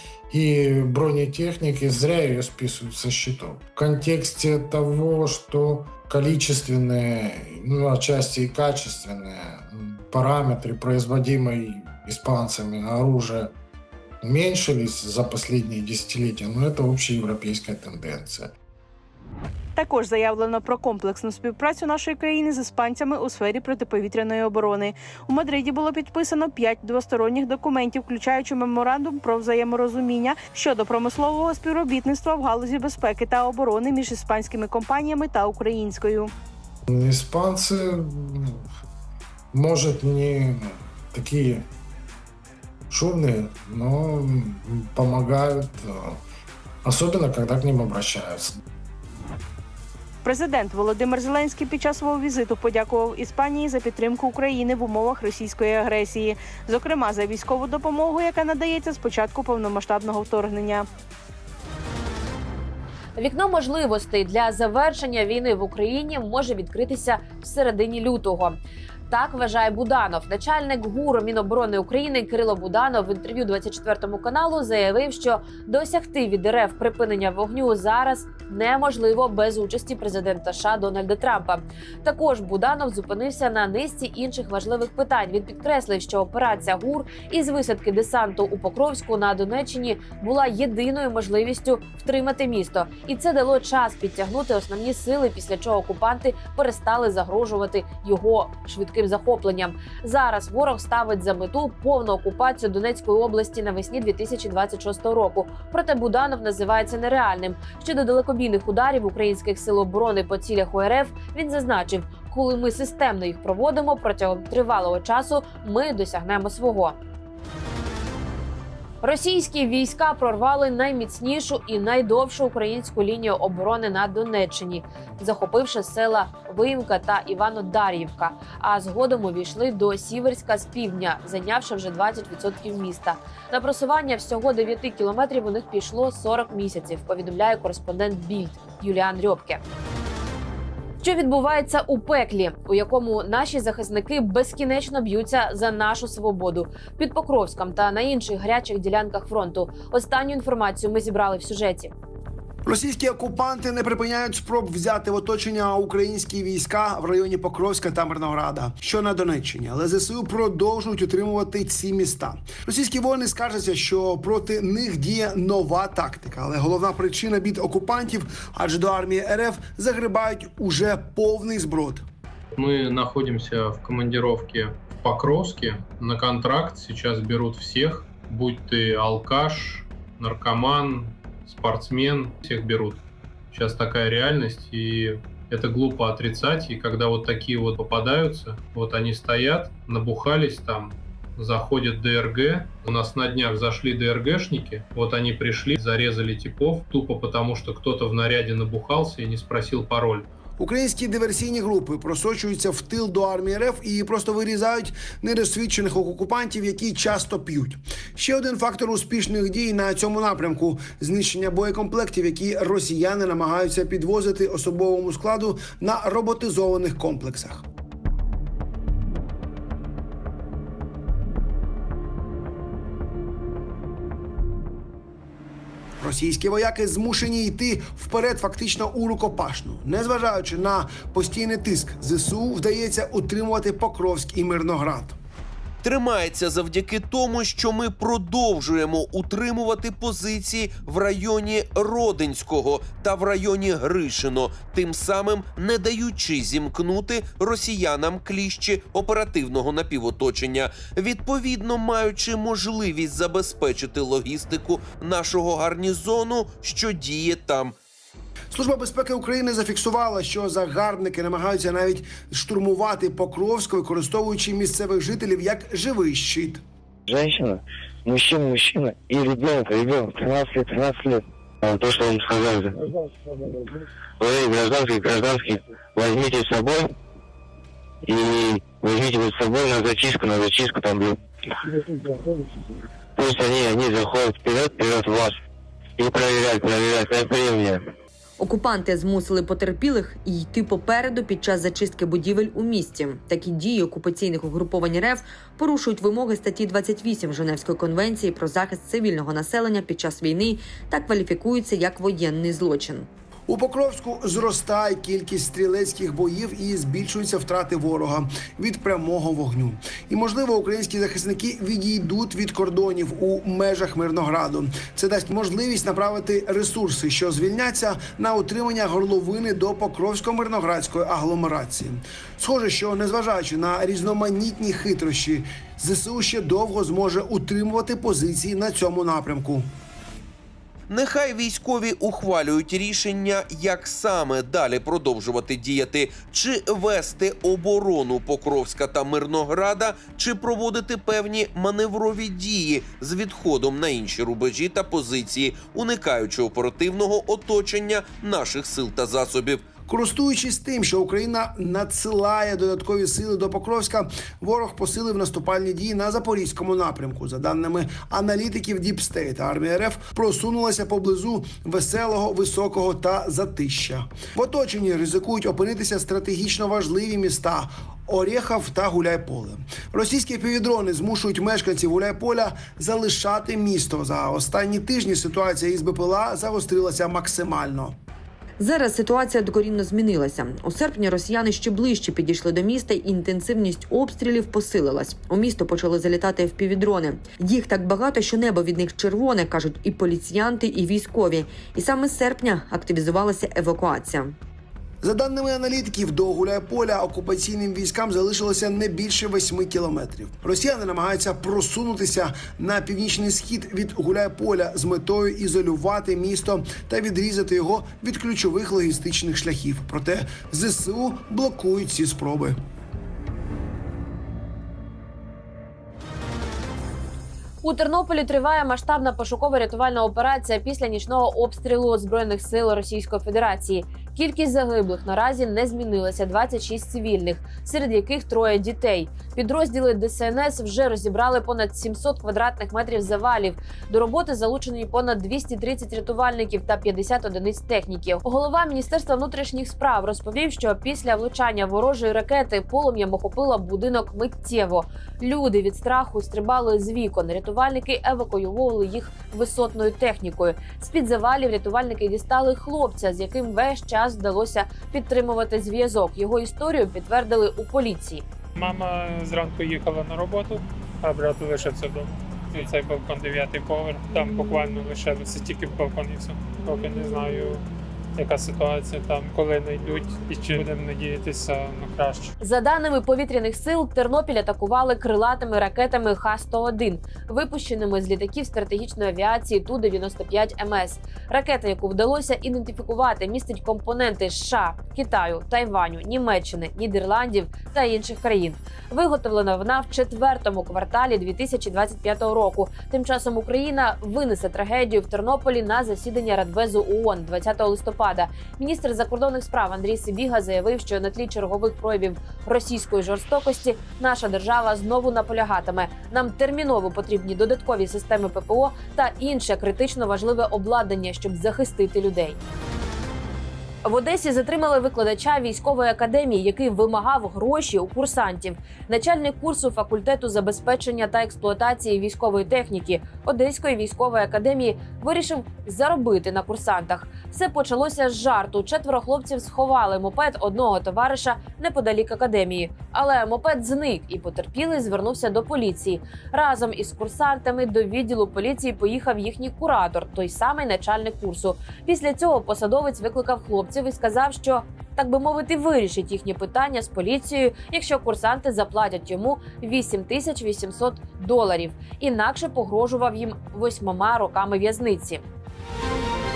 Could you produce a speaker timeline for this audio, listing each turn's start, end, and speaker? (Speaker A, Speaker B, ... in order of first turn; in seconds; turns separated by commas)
Speaker A: 0.3-13.5, Speaker A: 14.2-18.5, Speaker B: 19.8-36.3, Speaker A: 36.9-38.7, Speaker A: 39.5-41.7, Speaker A: 42.9-46.2, Speaker A: 46.8-48.6, Speaker B: 50.2-60.9, Speaker C: 63.2-68.6, Speaker C: 69.1-117.0, Speaker C: 119.0-139.6, Speaker C: 141.0-151.9, Speaker D: 152.6-172.0, Speaker E: 172.5-200.3, Speaker D: 200.6-217.6, Speaker D: 226.0-235.2, Speaker F: 235.8-257.7, Speaker D: 258.5-266.6, Speaker G: 267.1-272.9, Speaker G: 274.2-276.9, Speaker G: 278.0-281.2, Speaker G: 283.1-285.4, Speaker G: 286.0-287.9, Speaker H: 288.4-303.1, Speaker D: 303.5-329.7, Speaker F: 330.9-349.6, Speaker D: 349.9-378.0, Speaker H: 378.6-394.4, Speaker D: 395.0-412.6, Speaker C: 417.6-458.2, Speaker I: 458.6-467.6, Speaker I: 468.1-472.3, Speaker C: 472.4-512.4, Speaker C: 513.8-555.2